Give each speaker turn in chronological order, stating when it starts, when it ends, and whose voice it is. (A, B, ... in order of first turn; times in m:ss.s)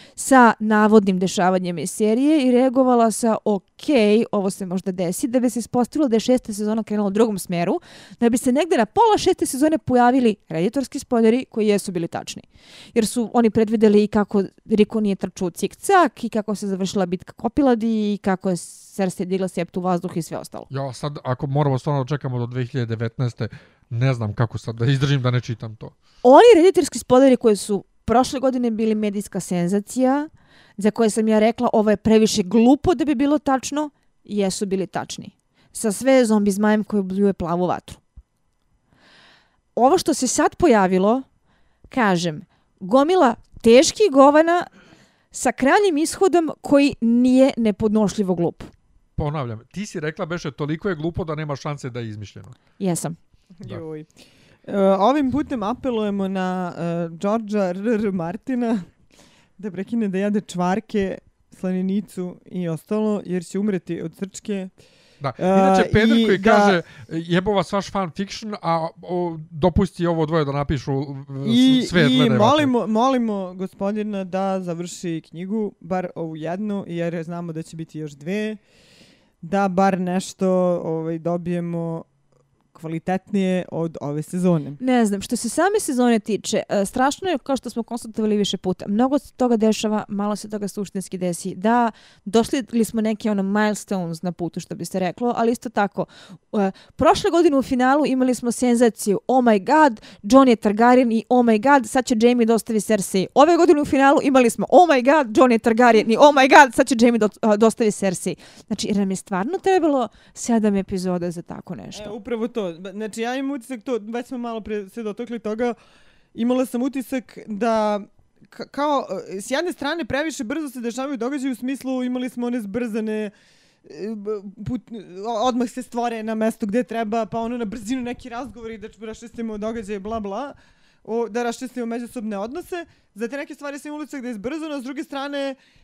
0:00.2-0:20.7 A
0:20.7-0:25.9 B
0:26.2-0:38.0 A
0:39.8-0:41.2 A
0:41.9-0:44.7 A
0:45.3-0:48.7 A
0:49.2-0:52.6 B
0:52.8-0:53.2 A
0:53.6-0:54.1 C
0:54.7-0:58.9 C
0:59.6-1:04.7 C
1:05.2-1:12.7 B
1:05.4-1:06.8 C
1:11.4-1:18.6 C
1:19.4-1:22.1 C
1:22.7-1:24.8 C
1:24.8-1:52.1 A
1:51.9-1:55.7 C
1:56.3-2:03.3 C
2:03.8-2:15.6 C